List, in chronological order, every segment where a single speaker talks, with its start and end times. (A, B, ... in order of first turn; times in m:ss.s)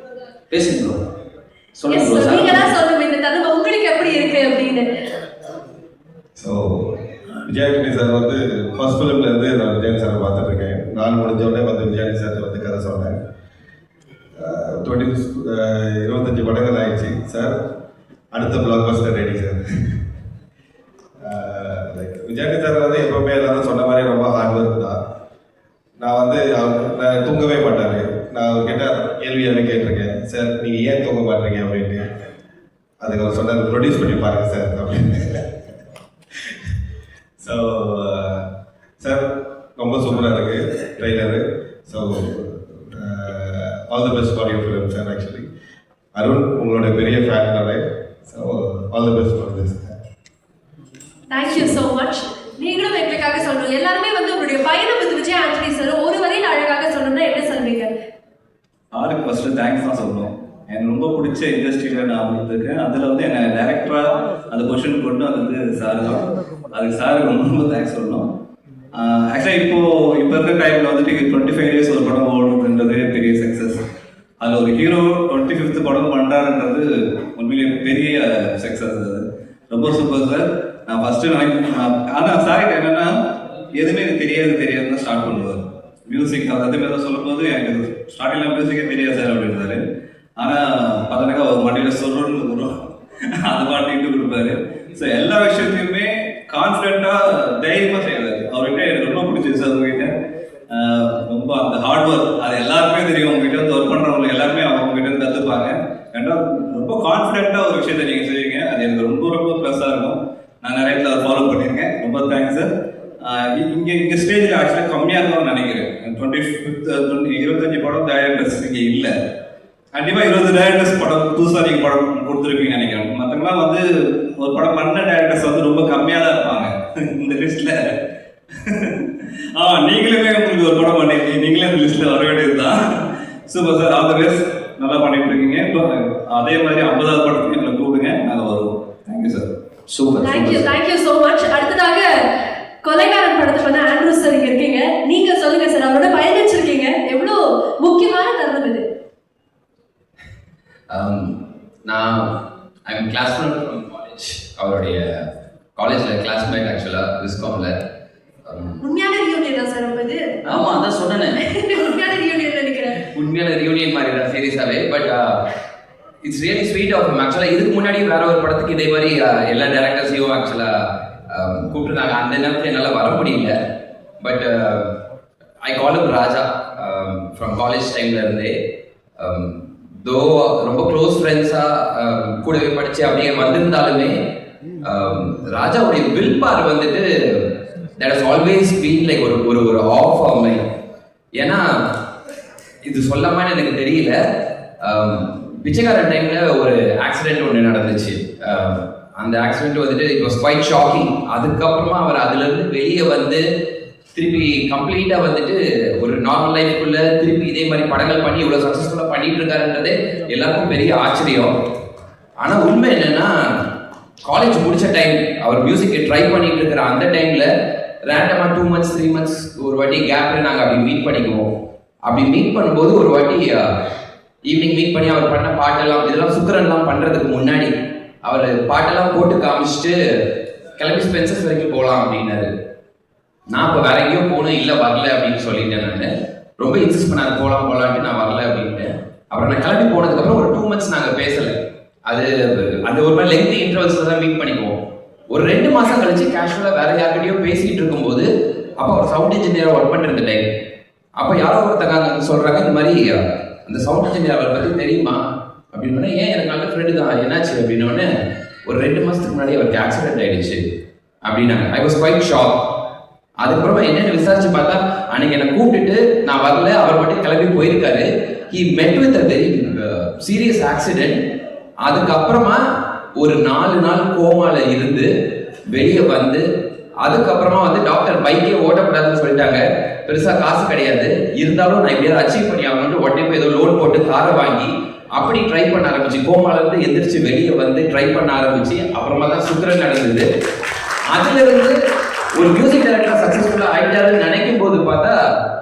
0:00.5-0:01.0 A
0:01.8-0:02.7 A
0:01.9-0:04.9 B
0:06.4-0:13.2 C
0:14.4-0:17.5 C
0:18.3-0:20.0 C
0:21.2-0:25.0 C
0:26.0-0:32.1 C
0:33.0-0:35.5 C
0:37.4-0:38.5 C
0:39.0-0:45.5 C
0:46.2-0:49.9 C
0:51.3-0:57.9 B
0:58.9-1:08.3 D
1:08.9-1:13.8 D
1:14.4-1:23.1 D
1:23.7-1:29.8 D
1:30.4-1:32.9 D
1:33.4-1:40.1 D
1:40.7-1:59.1 D
1:59.9-2:08.0 D
2:08.6-2:20.7 D
2:20.2-2:22.1 B
2:22.8-2:28.8 B
2:30.9-2:31.4 E
2:31.9-2:32.3 E
2:32.9-2:35.2 E
2:35.8-2:37.8 E
2:38.5-2:38.8 E
2:38.8-2:40.8 B
2:40.5-2:41.4 A
2:41.4-2:43.0 B
2:43.1-2:45.4 E
2:46.2-2:50.7 E
2:51.3-2:53.6 E
2:54.2-2:54.9 E
2:55.6-2:58.6 E
2:59.2-3:04.2 E
3:04.8-3:10.6 E
3:11.4-3:11.6 E
3:12.8-3:14.2 E
3:14.8-3:23.4 E
3:24.2-3:31.5 E
3:32.4-3:33.3 E
3:34.3-3:37.5 E
3:38.0-3:41.5 E
3:42.0-3:43.7 E
3:44.5-3:47.7 E
3:48.2-3:50.0 E
3:50.8-3:52.5 E
3:53.5-4:01.5 E
4:02.1-4:04.8 E
4:05.3-4:08.3 E
4:08.8-4:10.4 E
4:11.2-4:15.2 E
4:15.7-4:18.1 E
4:18.7-4:20.6 E
4:21.2-4:22.6 E
4:23.4-4:31.2 E
4:31.8-4:32.6 E
4:33.2-4:35.1 E
4:35.7-4:36.5 E
4:37.0-4:50.3 E
4:51.1-4:51.8 E
4:52.4-4:55.1 E